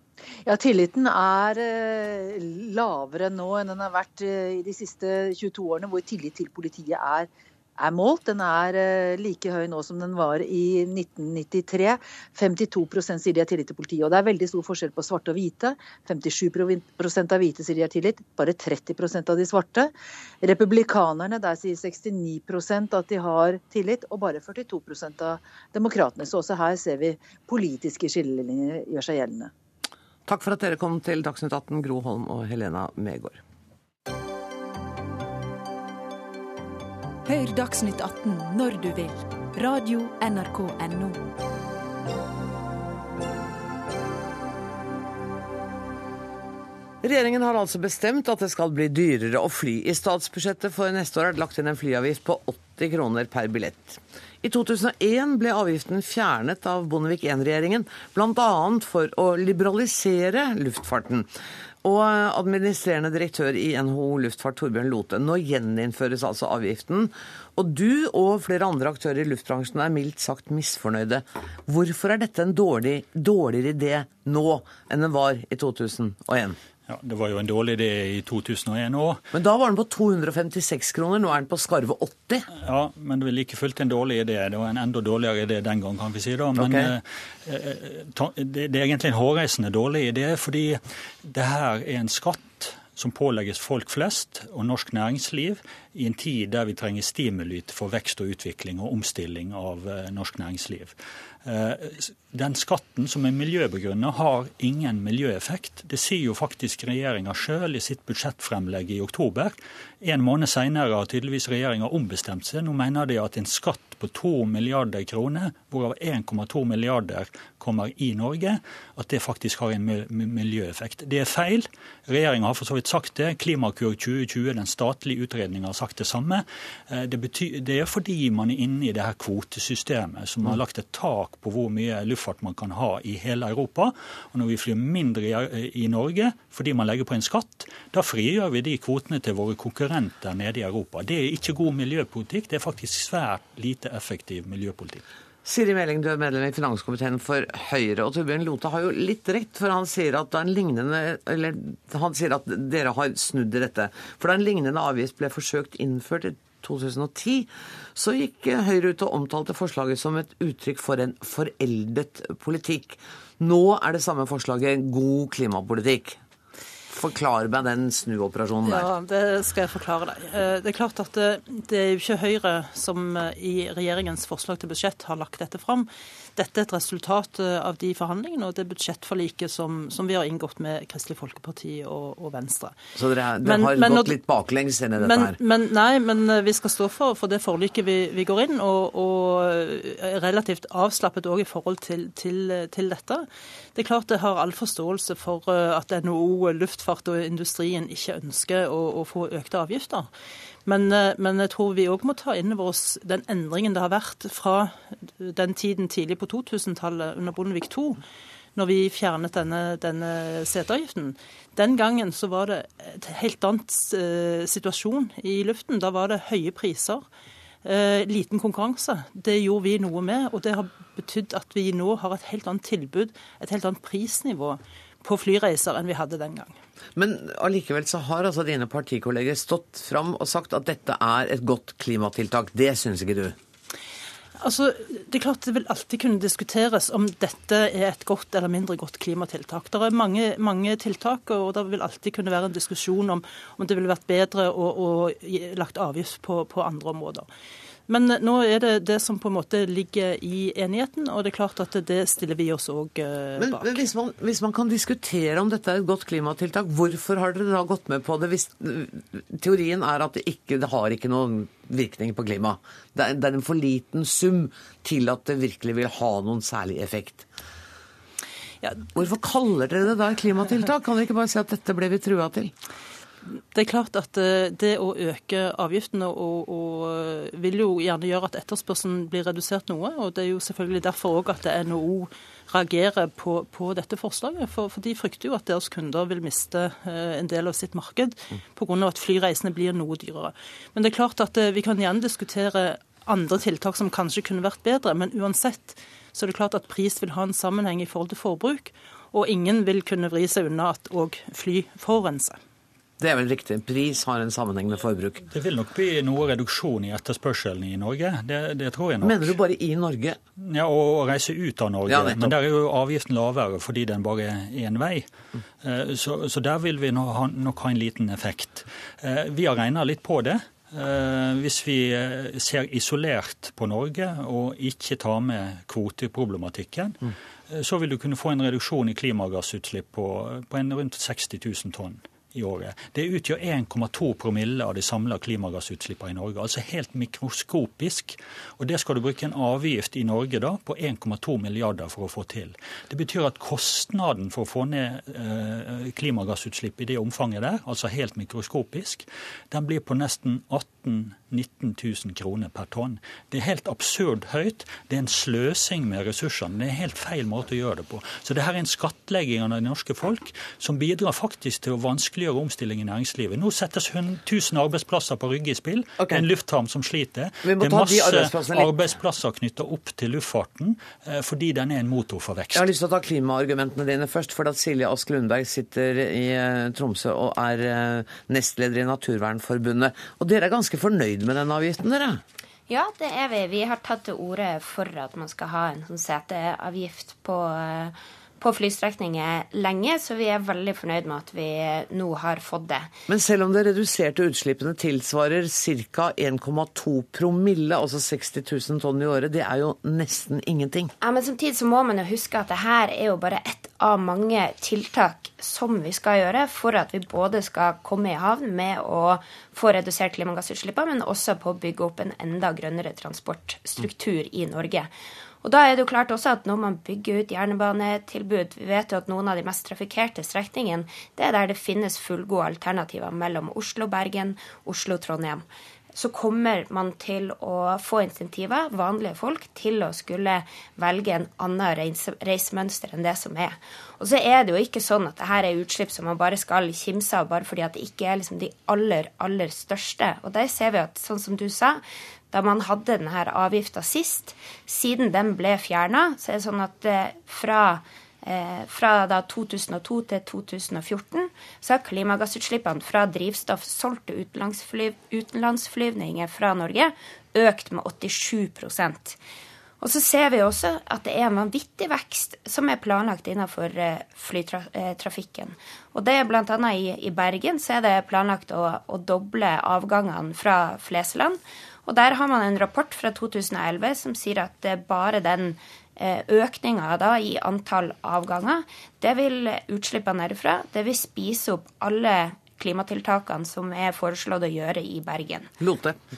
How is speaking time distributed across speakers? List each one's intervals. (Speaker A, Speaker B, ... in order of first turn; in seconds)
Speaker A: 0.5-29.5
Speaker B: 30.2-33.4, 47.0-61.3, 61.8-76.6, 79.3-82.5, 86.6-86.9, 145.4-166.2, 166.9-168.9, 183.0-185.4, 226.9-233.3, 253.3-267.2, 268.9-272.5, 303.0-305.2, 309.0-310.2, 311.9-312.3, 366.0-366.2, 367.4-368.7, 372.5-382.2, 393.1-400.9, 485.6-486.0
Speaker C: 37.2-41.2
Speaker D: 76.9-79.2, 82.5-145.0, 305.3-309.4, 310.4-315.1, 315.6-372.7
Speaker E: 168.6-182.7, 183.4-184.2, 185.0-200.1, 200.6-208.0, 208.6-217.0, 217.6-226.5, 234.4-247.3, 247.9-253.8, 273.5-302.4
Speaker F: 382.7-392.9, 401.0-414.9, 415.4-459.2, 459.8-485.5